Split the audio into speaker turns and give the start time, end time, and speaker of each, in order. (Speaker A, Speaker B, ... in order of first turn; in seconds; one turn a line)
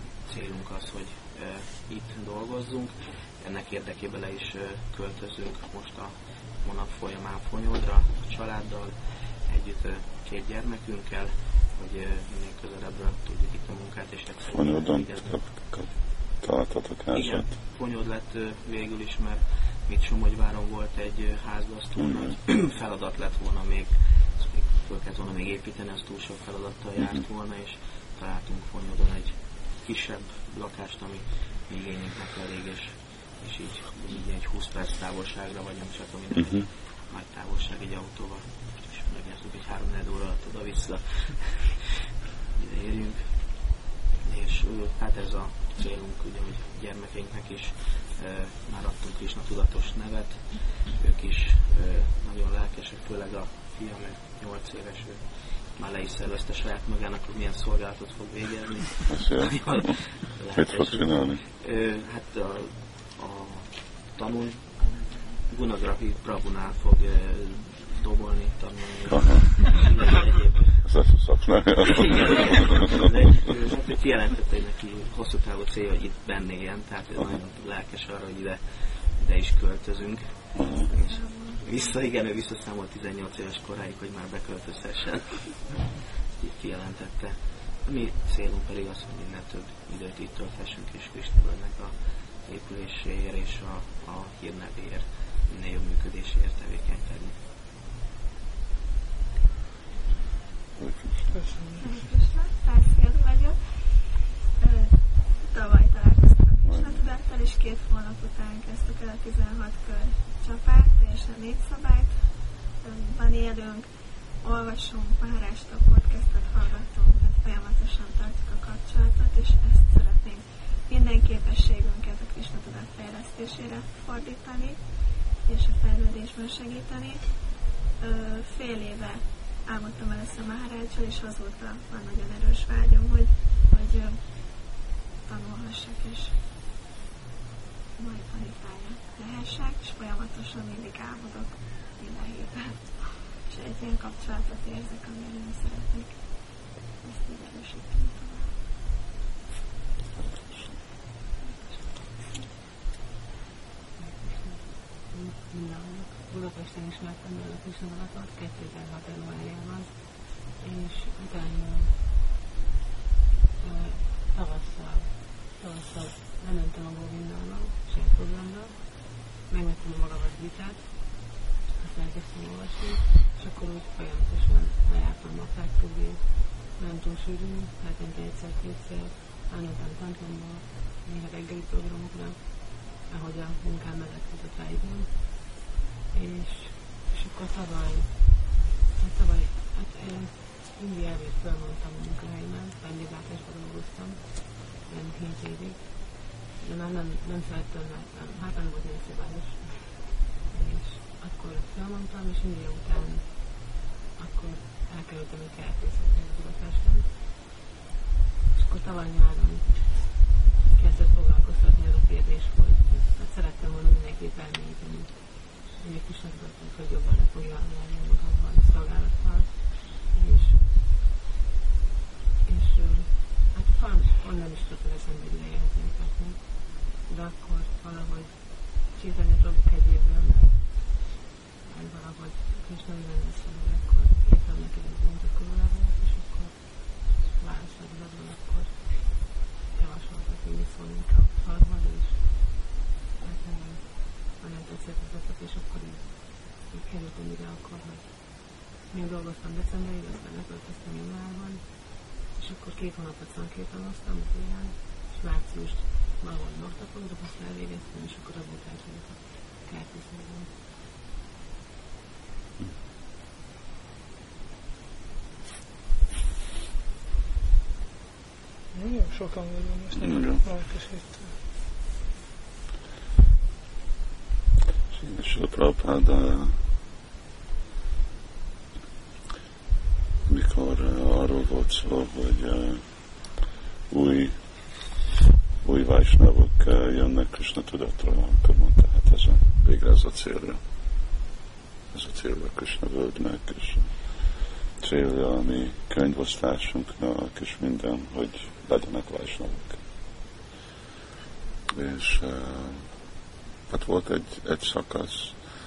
Speaker A: 0.2-15.4
Speaker B: 14.4-17.5
Speaker A: 17.1-41.9
Speaker B: 22.0-22.4
Speaker B: 36.3-36.7
Speaker A: 42.5-70.9
Speaker B: 59.1-60.0
Speaker B: 60.5-61.4
Speaker B: 69.1-69.4
Speaker B: 70.8-72.7
Speaker A: 72.2-97.4
Speaker B: 80.5-80.9
Speaker C: 81.0-81.6
Speaker B: 100.8-101.3
Speaker D: 101.3-101.9
Speaker C: 101.8-134.7
Speaker B: 106.6-107.0
Speaker C: 135.2-136.4
Speaker C: 138.0-148.6
Speaker B: 150.2-150.8
Speaker E: 154.0-162.1
Speaker E: 163.6-185.5
Speaker E: 186.1-188.5
Speaker E: 189.0-207.2
Speaker E: 208.5-210.2
Speaker E: 210.7-220.7
Speaker E: 222.4-260.5
Speaker D: 268.7-271.4
Speaker B: 270.0-270.4
Speaker B: 274.9-276.6
Speaker B: 280.3-282.8
Speaker B: 283.9-284.4
Speaker B: 285.6-290.6
Speaker B: 291.9-293.9
Speaker B: 294.8-299.8
Speaker B: 301.7-302.9
Speaker B: 303.7-305.4